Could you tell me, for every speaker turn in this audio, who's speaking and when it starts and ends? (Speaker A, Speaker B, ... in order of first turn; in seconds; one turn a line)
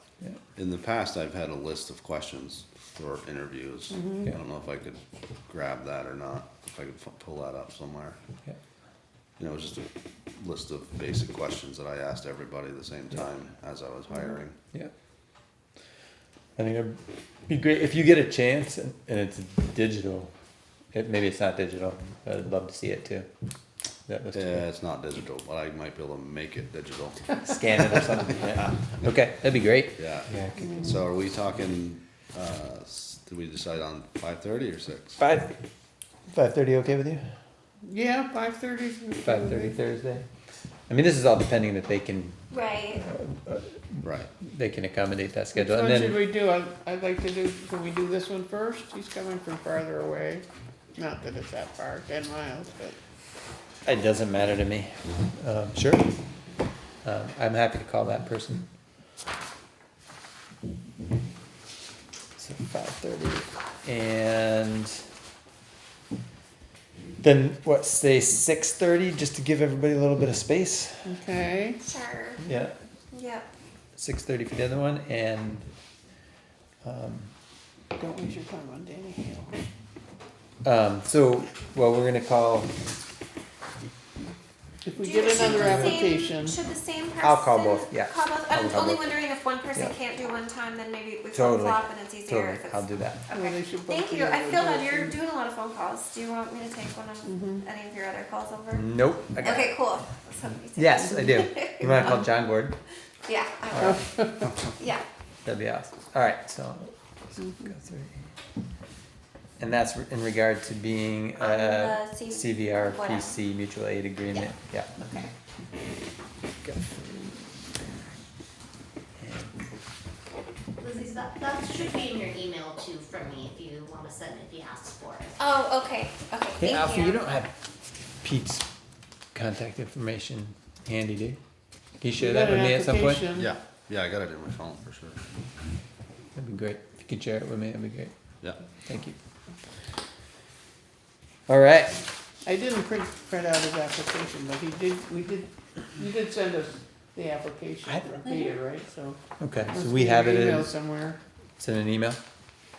Speaker A: 0.5-8.2
Speaker B: 3.9-4.2
Speaker A: 9.4-14.6
Speaker C: 16.6-20.3
Speaker C: 20.9-23.3
Speaker C: 24.1-24.6
Speaker A: 24.3-27.3
Speaker C: 27.4-30.8
Speaker A: 30.0-35.2
Speaker C: 35.2-35.5
Speaker C: 36.3-37.2
Speaker B: 37.8-39.7
Speaker C: 39.2-40.2
Speaker C: 40.9-42.4
Speaker D: 42.5-43.1
Speaker C: 43.0-46.2
Speaker A: 44.0-44.3
Speaker B: 45.5-50.4
Speaker B: 51.0-53.0
Speaker C: 53.8-56.0
Speaker C: 57.0-58.7
Speaker C: 62.4-65.0
Speaker C: 67.2-71.1
Speaker B: 71.0-71.8
Speaker D: 71.8-72.4
Speaker C: 72.4-72.8
Speaker D: 73.1-73.5
Speaker C: 74.0-75.7
Speaker C: 76.8-77.3
Speaker B: 78.0-79.5
Speaker C: 80.6-82.7
Speaker B: 84.8-86.5
Speaker D: 85.0-102.2
Speaker C: 85.3-86.0
Speaker C: 87.2-89.0
Speaker C: 91.3-93.2
Speaker B: 93.3-95.2
Speaker B: 97.3-97.6
Speaker C: 98.7-99.8
Speaker C: 100.8-102.8
Speaker D: 103.3-104.0
Speaker C: 103.7-104.0
Speaker B: 104.0-104.3
Speaker D: 104.8-105.0
Speaker C: 105.4-108.2
Speaker C: 109.6-114.9
Speaker D: 111.4-113.3
Speaker D: 114.3-115.3
Speaker C: 119.2-119.5
Speaker E: 120.8-125.3
Speaker D: 125.4-127.3
Speaker C: 126.6-127.5
Speaker C: 128.2-128.7
Speaker C: 129.3-131.4
Speaker C: 132.0-133.2
Speaker B: 132.2-133.5
Speaker A: 133.3-135.2
Speaker C: 136.3-138.1
Speaker C: 138.8-139.2
Speaker C: 141.5-142.0
Speaker B: 142.4-149.2
Speaker C: 149.4-150.7
Speaker B: 149.7-151.2
Speaker C: 151.6-152.2